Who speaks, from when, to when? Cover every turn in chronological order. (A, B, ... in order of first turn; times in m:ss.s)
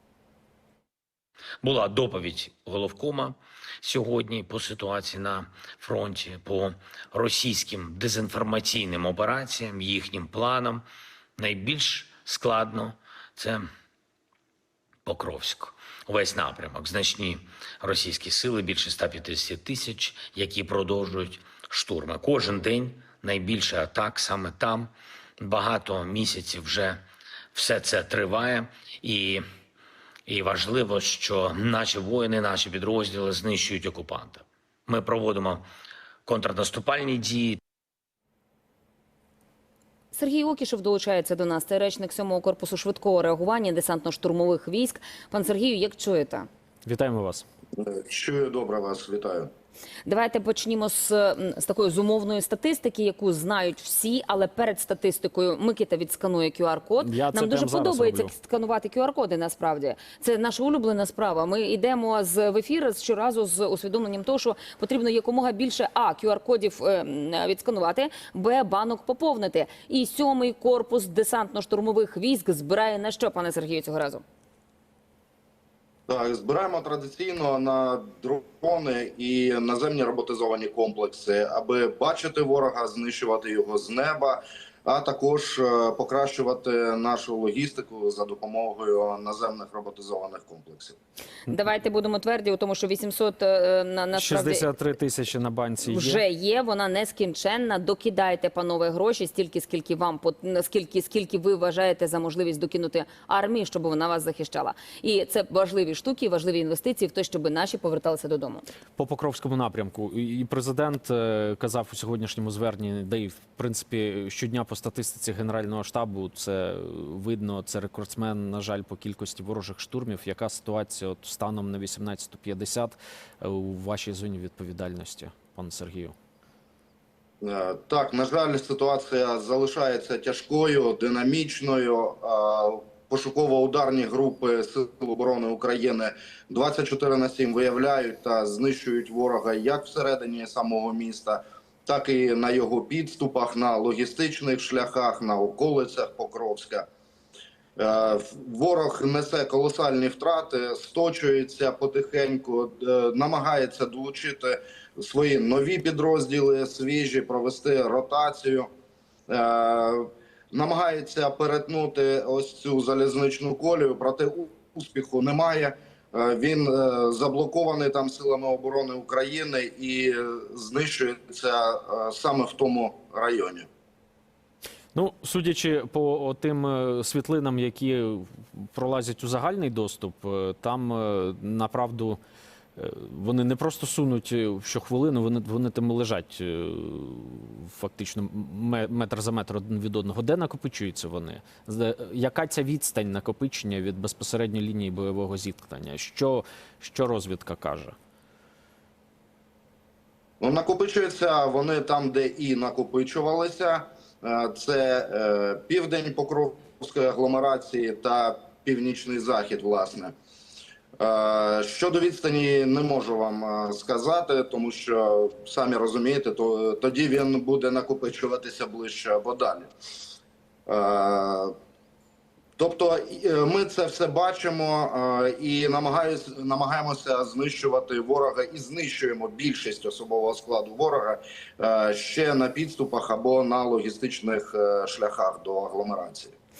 0:01.6-0:10.8 A
0:11.4-0:13.7 A
0:15.0-0:27.0 A
0:27.5-0:29.4 A
0:30.3-0:35.6 A
0:36.2-0:37.6 A
0:40.1-0:46.5 B
0:46.8-0:47.4 C
0:47.8-0:49.5 D
0:50.0-1:14.2 B
0:57.0-0:58.3 C
1:16.1-1:31.0 D
1:31.5-1:34.7 B
1:34.1-1:36.2 C
1:35.8-1:48.6 B
1:49.0-2:06.1 C
2:07.4-2:26.8 D
2:27.8-2:38.7 D
2:39.3-2:53.7 D
2:54.9-3:02.2 C
3:02.8-3:17.9 C
3:20.4-3:30.1 D
3:31.0-3:39.7 D
3:40.7-3:41.5 D
3:42.6-3:56.3 D